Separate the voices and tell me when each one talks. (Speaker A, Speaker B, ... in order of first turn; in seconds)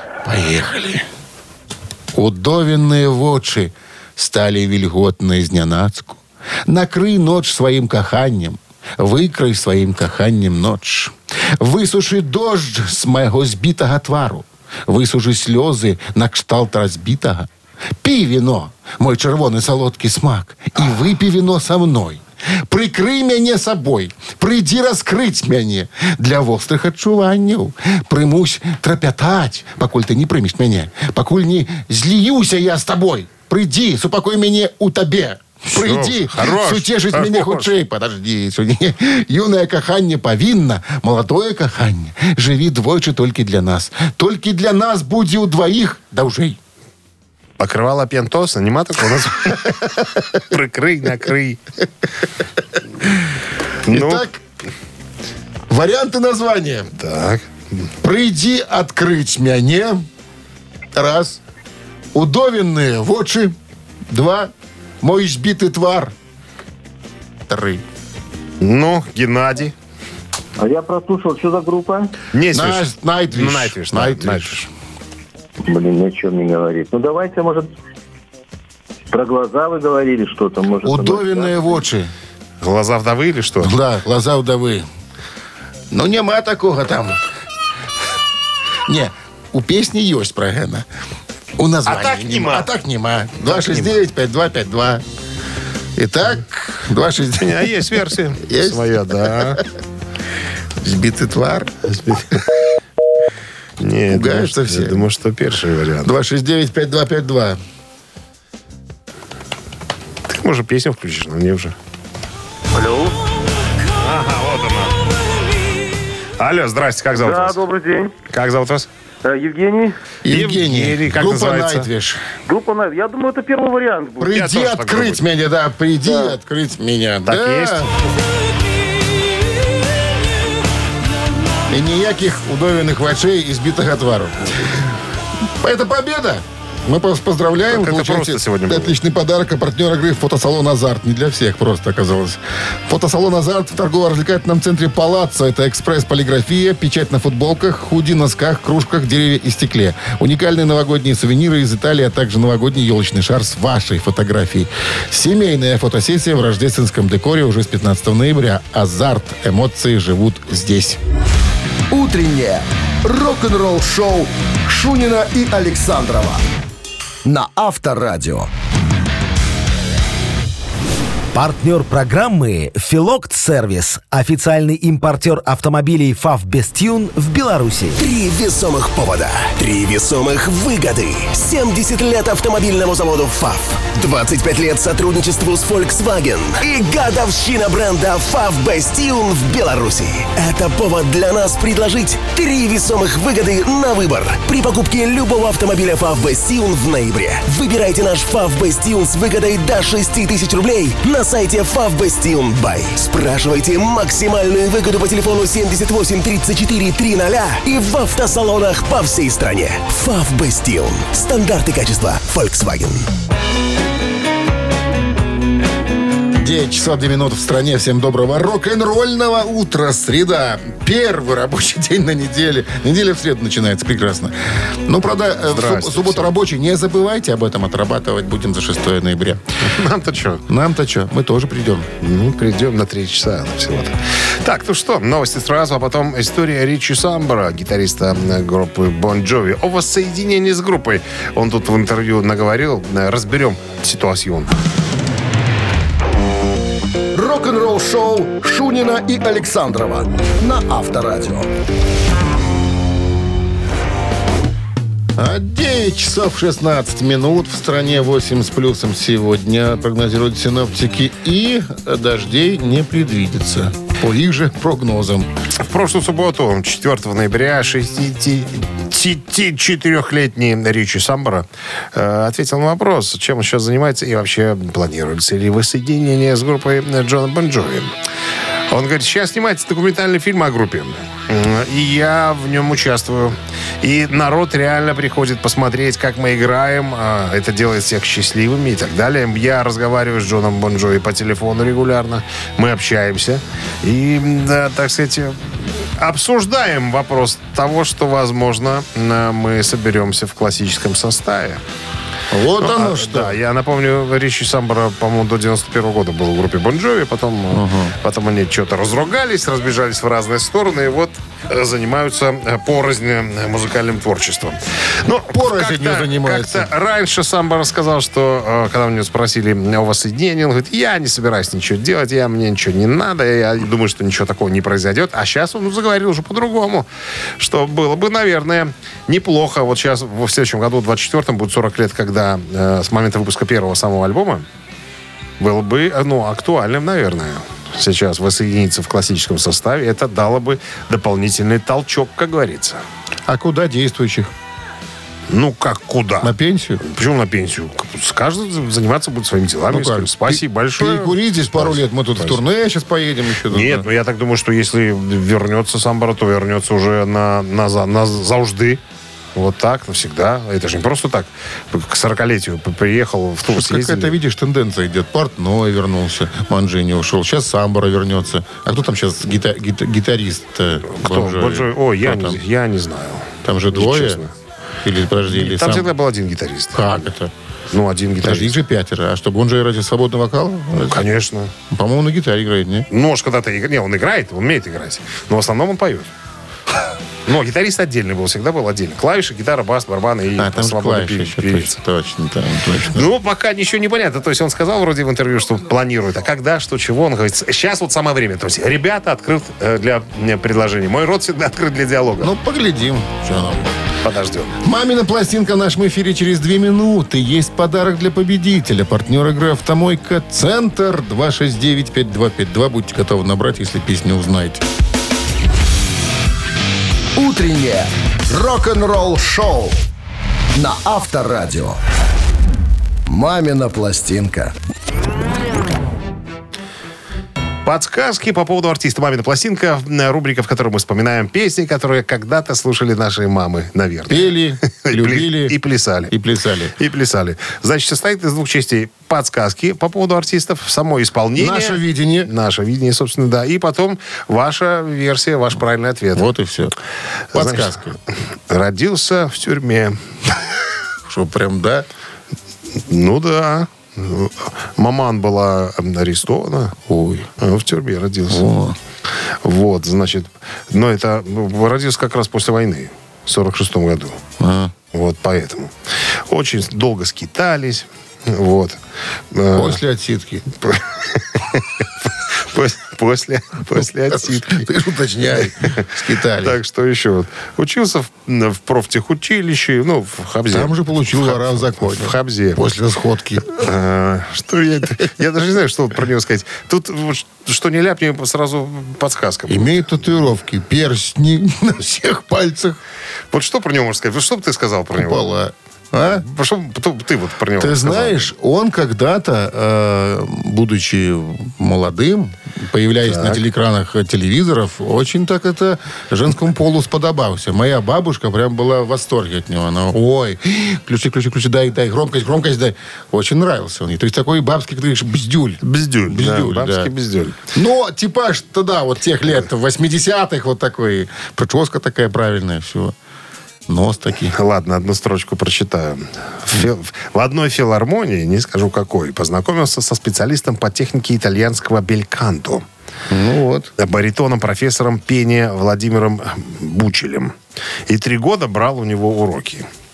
Speaker A: 0.2-1.0, 2.1-17.5, 18.0-46.6, 53.9-54.4, 55.7-56.9, 58.0-60.0, 60.9-61.4, 62.1-63.5, 64.1-66.1, 67.5-67.8, 72.5-74.7, 80.8-82.1, 83.6-84.8, 85.9-87.2, 88.9-90.8, 91.6-95.0, 96.0-97.7, 98.4-99.6, 100.8-101.8, 104.1-105.0, 106.0-107.6, 120.2-122.2, 124.2-127.9, 131.7-134.7, 135.6-161.0, 216.4-229.4, 230.5-231.9, 255.2-265.3, 302.3-303.4, 307.5-307.9, 315.3-316.7, 343.3-344.3, 346.2-346.8, 349.7-353.9, 363.5-372.4, 373.4-374.2, 374.8-375.9, 376.7-377.3, 378.2-381.1, 381.7-382.9, 390.4-393.1, 402.2-403.7, 404.6-414.6, 434.1-435.6, 436.1-436.7, 441.4-442.3, 446.1-446.7, 447.3-447.9, 451.1-451.9, 456.9-457.3, 458.3-458.8, 464.4-464.7, 469.5-470.4, 473.8-476.6, 480.5-483.6, 489.5-492.8, 494.9-496.2, 497.6-516.9, 517.5-522.9, 523.7-524.3, 533.1-533.7
Speaker B: 35.7-37.7, 47.6-51.6, 53.8-54.2, 57.0-57.5, 68.6-69.7, 72.3-74.7, 82.6-83.7, 91.9-92.7, 93.4-94.0, 97.3-99.6, 101.9-102.4, 103.8-106.1, 110.3-111.7, 114.0-115.0, 116.4-117.6, 118.3-118.9, 120.3-121.9, 124.3-125.2, 127.2-127.9, 137.7-138.9, 225.5-226.3, 229.6-230.4, 232.0-244.6, 265.6-277.9, 278.7-301.6, 302.6-326.9, 327.4-334.4, 335.4-342.8, 345.3-352.4, 353.5-358.8, 359.3-364.1, 370.9-374.3, 375.3-377.1, 377.7-378.6, 380.7-381.5, 382.9-386.1, 387.2-391.7, 392.9-402.3, 404.0-404.6, 427.6-436.1, 436.8-446.2, 447.3-447.8, 448.5-450.0, 452.9-456.8, 457.4-458.4, 459.4-464.2, 464.9-468.8, 469.3-469.8, 470.6-474.7, 475.3-482.6, 483.5-489.9, 493.3-495.2, 496.1-498.3, 503.0-503.4, 515.6-517.4, 524.3-532.6, 533.8-537.3, 537.9-539.7
Speaker C: 70.6-72.1, 75.7-77.7, 79.1-81.6, 112.7-113.1, 117.2-118.1, 119.2-119.9, 122.5-124.3, 126.0-126.3
Speaker D: 161.9-166.4, 167.2-168.5, 247.1-251.5, 417.1-419.8, 420.5-421.8, 423.1-424.5
Speaker E: 171.3-177.9
Speaker F: 178.0-213.1